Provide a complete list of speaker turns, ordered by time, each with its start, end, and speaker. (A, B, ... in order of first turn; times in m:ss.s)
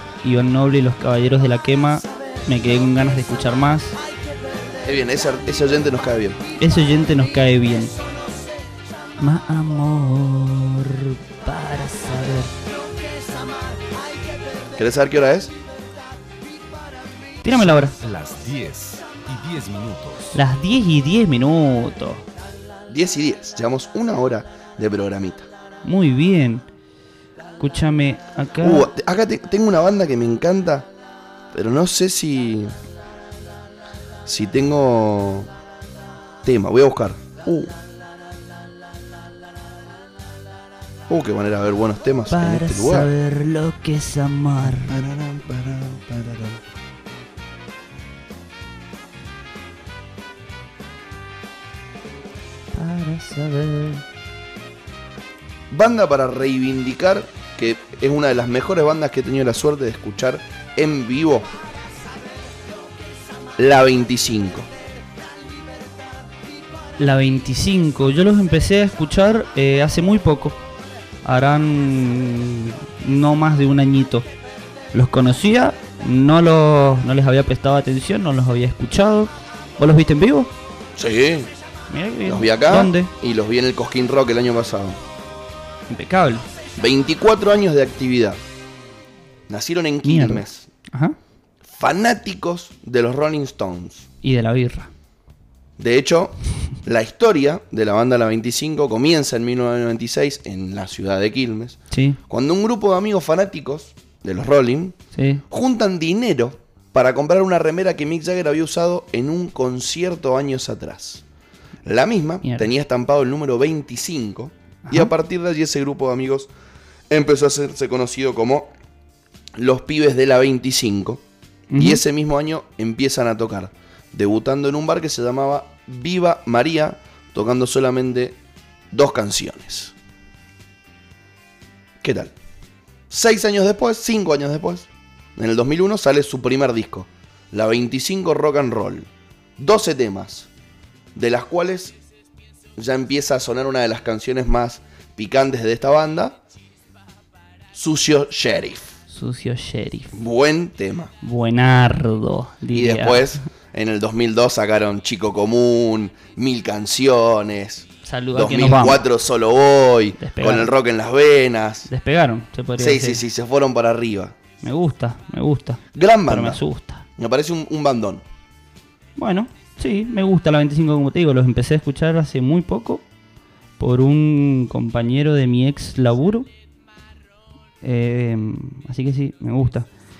0:00.2-0:04.0 A
0:04.8-0:06.4 B
0:06.6-0:07.9 A
0:09.2-0:12.5 A
0:14.7-0:15.5 B
0:17.4-0:18.0 A
0:17.5-0:20.4 C
0:20.3-0:22.2 A
0:22.9-0:25.5 B
0:25.8-0:26.6 A
0:27.6-0:28.9 A
0:28.6-0:30.9 B
0:31.5-0:32.7 B
0:34.2-0:35.5 B
0:36.4-0:37.7 B
0:41.1-0:43.1 B
0:42.3-0:45.0 A
0:44.8-0:46.6 B
0:52.7-0:54.0 A
0:55.7-1:01.5 B
1:03.6-1:04.7 B
1:07.0-1:10.6 A
1:11.2-1:14.3 A
1:14.9-1:20.5 A
1:21.0-1:21.5 B
1:21.9-1:23.1 A
1:22.3-1:25.0 B
1:25.9-1:26.5 A
1:26.8-1:28.4 B
1:29.5-1:30.6 B
1:30.0-1:31.2 A
1:31.6-1:34.1 B
1:34.2-1:34.9 A
1:35.8-1:41.8 B
1:41.9-1:42.2 A
1:42.3-1:45.0 B
1:45.1-1:45.4 A
1:45.5-1:51.2 B
1:51.8-1:56.5 B
1:54.8-1:55.1 A
1:57.1-1:58.7 B
1:59.6-2:01.2 B
2:01.7-2:02.0 A
2:01.8-2:08.4 B
2:08.9-2:09.9 B
2:12.0-2:12.3 B
2:13.1-2:20.5 B
2:21.1-2:21.9 B
2:22.8-2:26.4 B
2:27.7-2:29.0 B
2:29.1-2:30.1 A
2:30.1-2:31.1 B
2:31.2-2:33.4 A
2:32.7-2:41.9 B
2:38.0-2:39.0 A
2:40.2-2:40.7 A
2:41.9-2:43.2 A
2:42.8-2:44.3 B
2:44.6-2:47.0 A
2:45.9-2:46.6 B
2:47.2-2:48.2 B
2:49.2-2:53.0 A
2:53.8-2:56.5 A
2:57.8-2:59.9 A